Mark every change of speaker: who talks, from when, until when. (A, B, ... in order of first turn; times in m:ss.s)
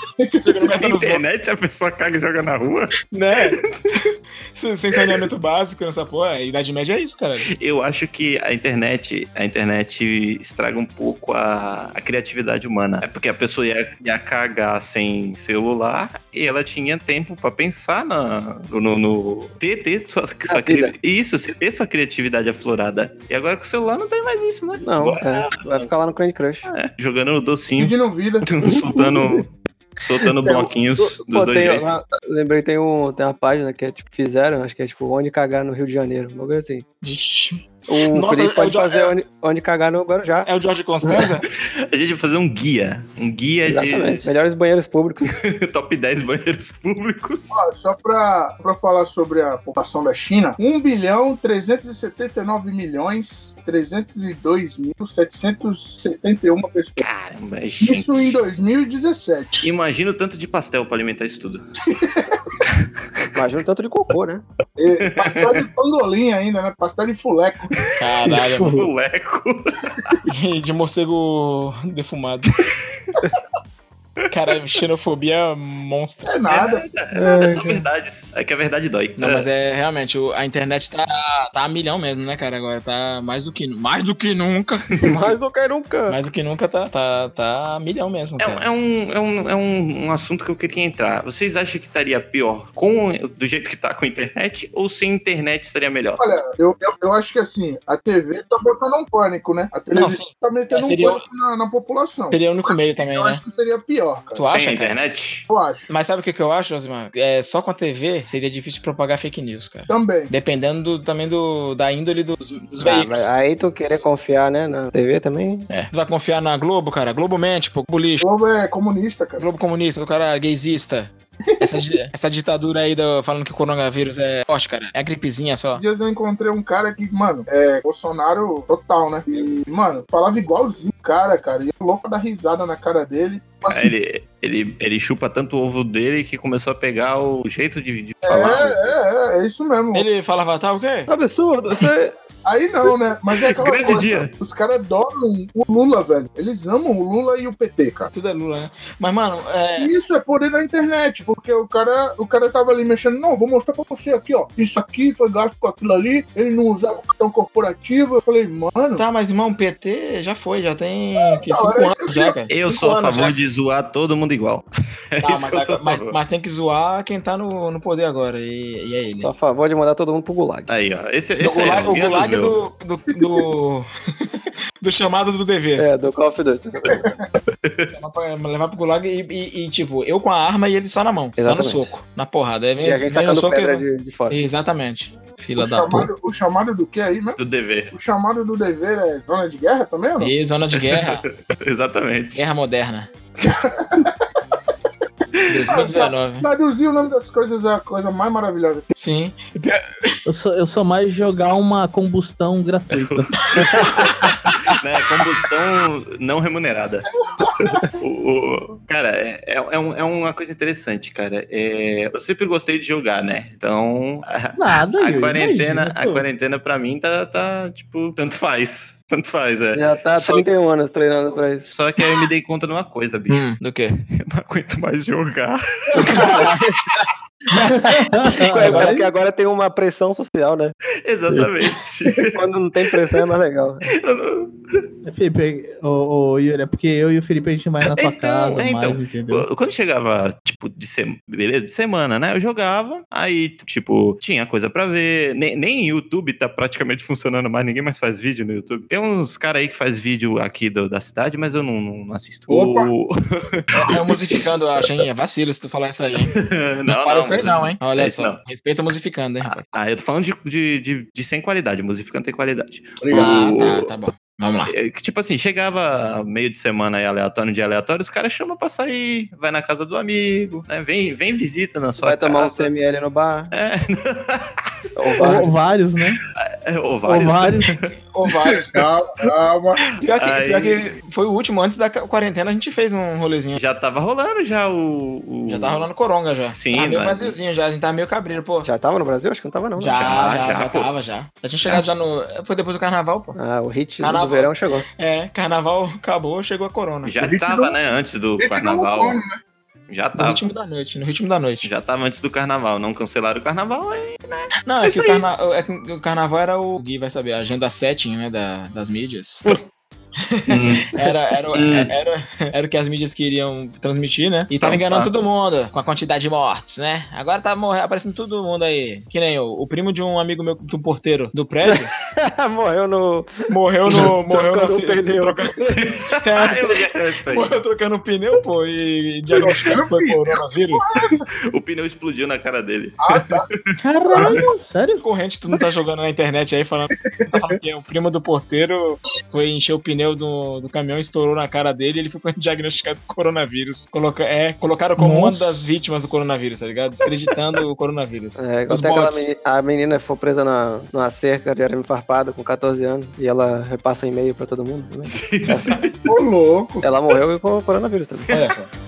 0:00.2-0:00.5 A
0:00.4-0:01.2 B
0:00.6-0:03.0 C
0:03.1-0:04.0 B
0:03.5-0:03.9 C
0:04.5-0:07.5 B
0:07.5-0:25.9 C
0:20.5-0:20.9 D
0:24.8-0:26.7 D
0:26.7-0:31.8 C
0:27.8-0:29.3 A
0:30.4-0:37.0 D
0:37.0-0:39.1 B
0:37.9-0:40.5 D
0:40.4-0:41.5 B
0:41.0-0:41.3 D
0:41.6-0:44.3 C
0:43.7-0:45.4 D
0:45.3-0:47.6 C
0:47.5-0:57.0 A
0:57.0-0:58.4 C
0:57.8-0:59.7 A
0:59.6-1:01.6 C
1:01.8-1:02.5 A
1:02.7-1:03.2 C
1:03.3-1:04.4 D
1:04.8-1:07.8 A
1:05.0-1:05.6 C
1:07.7-1:10.2 C
1:08.0-1:08.9 B
1:08.2-1:08.8 D
1:10.2-1:12.6 B
1:12.6-1:13.2 C
1:14.3-1:16.3 B
1:16.2-1:16.8 A
1:16.5-1:19.5 C
1:17.1-1:17.8 D
1:19.2-1:25.0 B
1:25.0-1:26.2 D
1:26.1-1:28.6 B
1:28.4-1:36.2 C
1:36.2-1:44.4 A
1:39.9-1:41.2 B
1:42.3-1:43.4 B
1:44.3-1:45.0 B
1:44.4-1:45.4 C
1:45.5-1:45.9 A
1:45.9-1:53.2 B
1:49.9-1:50.3 A
1:52.8-1:55.7 D
1:55.7-1:58.2 B
1:58.2-1:59.4 A
1:59.4-2:05.8 B
2:01.5-2:01.8 A
2:05.7-2:13.9 A
2:13.7-2:18.9 C
2:18.2-2:20.0 A
2:19.9-2:21.1 B
2:21.1-2:22.2 D
2:22.4-2:28.1 A
2:23.3-2:24.3 C
2:28.1-2:29.9 B
2:29.8-2:39.0 A
2:38.9-2:43.4 B
2:41.2-2:42.4 A
2:42.5-2:46.2 C
2:45.2-2:49.3 B
2:49.2-2:50.7 D
2:50.7-2:52.6 C
2:51.4-2:55.8 B
2:55.8-2:57.1 D
2:56.9-2:57.2 A
2:57.6-2:57.9 C
2:57.9-3:06.1 B
3:01.4-3:01.9 D
3:02.8-3:04.4 D
3:05.6-3:07.4 A
3:07.4-3:07.9 C
3:07.9-3:10.3 A
3:10.2-3:11.2 B
3:10.8-3:12.4 C
3:12.4-3:13.1 B
3:13.4-3:14.2 A
3:15.5-3:16.5 B
3:15.7-3:18.9 A
3:18.9-3:20.2 B
3:20.2-3:23.4 E
3:22.9-3:27.1 C
3:23.5-3:24.1 B
3:27.2-3:27.8 A
3:27.6-3:40.4 C
3:34.6-3:36.2 E
3:39.7-3:41.7 D
3:41.6-3:46.5 C
3:43.3-3:44.0 B
3:46.0-3:46.5 B
3:46.0-3:47.0 D
3:47.6-3:50.7 D
3:47.7-3:49.0 E
3:48.4-3:49.0 B
3:51.0-3:52.4 C
3:52.3-3:53.9 D
3:53.9-3:54.8 C
3:55.0-3:59.4 E
3:57.8-4:14.0 C
4:12.5-4:12.9 A
4:13.7-4:16.3 B
4:16.3-4:18.4 C
4:16.9-4:19.6 B
4:19.4-4:23.9 C
4:23.0-4:23.5 A
4:23.1-4:24.7 B
4:24.7-4:32.7 C
4:32.0-4:33.5 D
4:33.5-4:34.6 C
4:35.0-4:35.5 D
4:35.2-4:36.2 E
4:36.4-4:37.9 C
4:37.0-4:37.8 E
4:38.1-4:38.7 B
4:38.6-4:39.9 A
4:40.0-4:43.6 B
4:40.1-4:40.8 C
4:43.6-4:45.8 C
4:45.5-4:48.7 B
4:46.5-4:47.4 C
4:48.6-4:50.2 D
4:49.8-4:53.4 B
4:49.9-4:50.9 C
4:53.4-4:54.9 D
4:54.0-4:57.1 B
4:57.0-4:59.2 C
4:57.2-4:57.8 A
4:58.4-4:59.4 A
4:59.9-5:00.4 C
5:00.2-5:01.7 B
5:01.6-5:05.2 C
5:04.6-5:09.5 B
5:10.2-5:21.9 B
5:10.5-5:10.9 C
5:11.5-5:11.9 C
5:14.6-5:15.1 C
5:21.6-5:25.8 D
5:23.5-5:30.8 B
5:25.8-5:27.6 C
5:29.3-5:31.2 A
5:31.5-5:33.7 C
5:33.0-5:33.5 A
5:33.8-5:35.0 E
5:34.1-5:34.4 A
5:35.0-5:49.3 B
5:37.3-5:37.5 A
5:45.0-5:45.8 E
5:48.4-5:55.8 D
5:55.0-5:56.0 C
5:56.0-5:56.8 A
5:56.8-5:58.3 D
5:58.3-5:58.7 B